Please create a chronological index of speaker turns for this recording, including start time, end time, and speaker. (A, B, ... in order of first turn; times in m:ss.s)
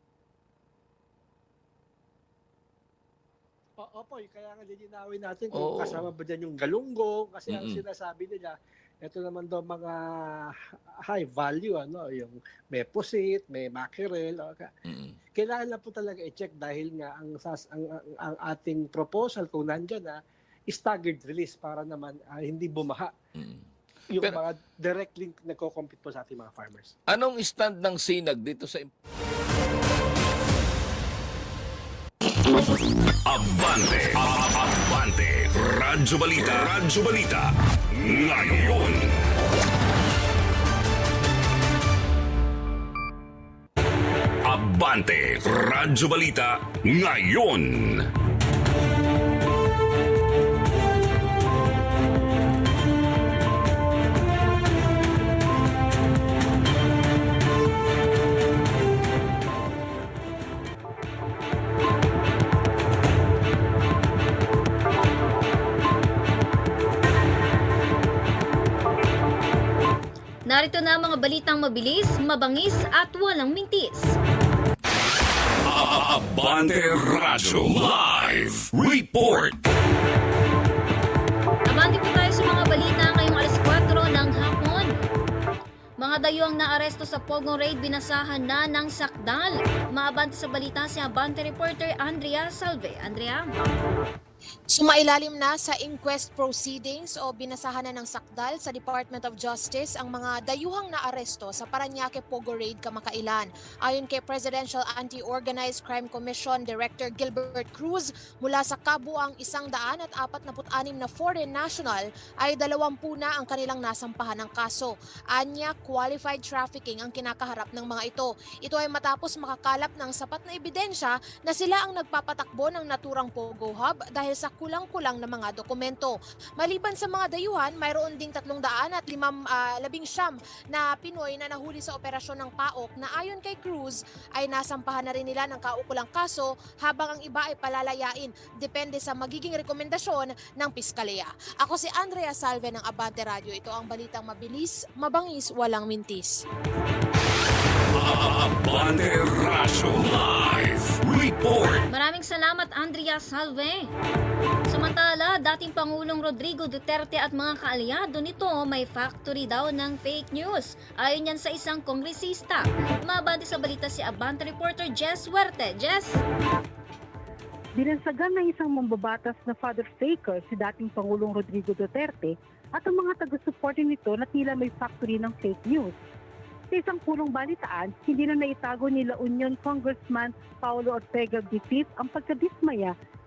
0:03.8-0:14.7 A
0:05.6-0:06.0 B
0:07.5-0:07.8 B
0:15.4-0:20.2 A
0:20.7-0:23.1 A
0:24.1-0:27.0 A
0:27.1-0:28.9 B
0:33.3-0:39.2 C
0:44.4-0:48.1 C
1:10.5-1:14.1 D
1:15.6-1:19.6 C
1:21.7-1:24.9 D
1:26.0-1:33.5 D
1:34.7-2:26.4 E
2:28.0-2:31.8 C
2:31.9-2:33.9 D
2:34.7-2:46.2 D
2:47.8-2:56.0 F
2:56.7-3:02.9 F